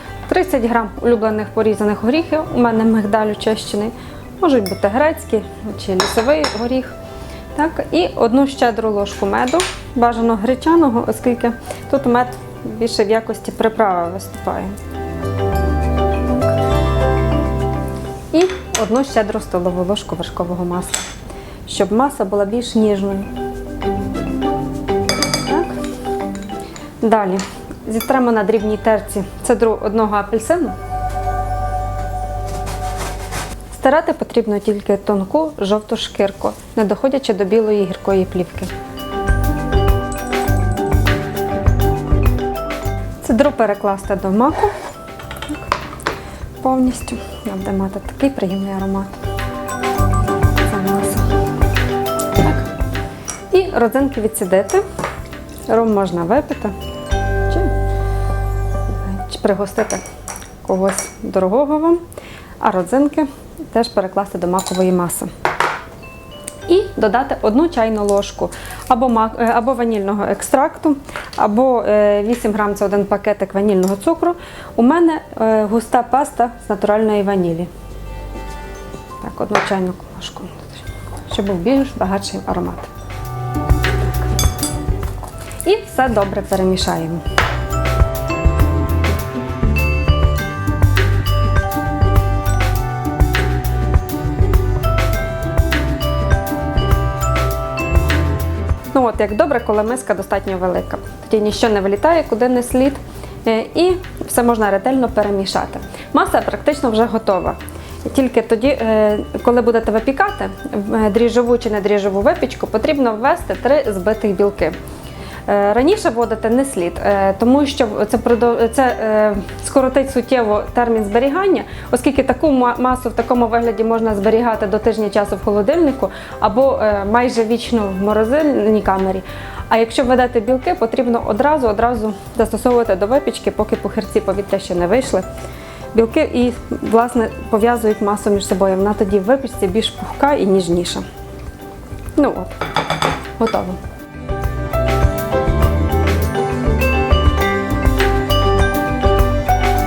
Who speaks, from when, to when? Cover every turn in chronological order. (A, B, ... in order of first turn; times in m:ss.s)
0:00.3-0:06.9 A
0:07.5-0:14.8 A
0:18.3-0:21.0 A
0:21.7-0:23.3 A
0:25.5-0:25.8 A
0:27.0-0:30.8 A
0:33.7-0:38.7 A
0:43.2-0:44.7 A
0:46.6-0:49.2 A
0:50.6-0:51.3 A
0:53.5-0:54.8 A
0:55.7-0:56.8 A
0:59.0-1:00.0 A
1:00.6-1:02.0 A
1:02.6-1:05.3 A
1:06.7-1:17.7 A
1:19.2-1:22.9 A
1:25.6-1:27.2 A
1:38.9-1:54.8 A
1:55.5-2:15.3 A
2:15.9-2:21.0 A
2:22.2-2:22.6 A
2:23.4-2:23.8 A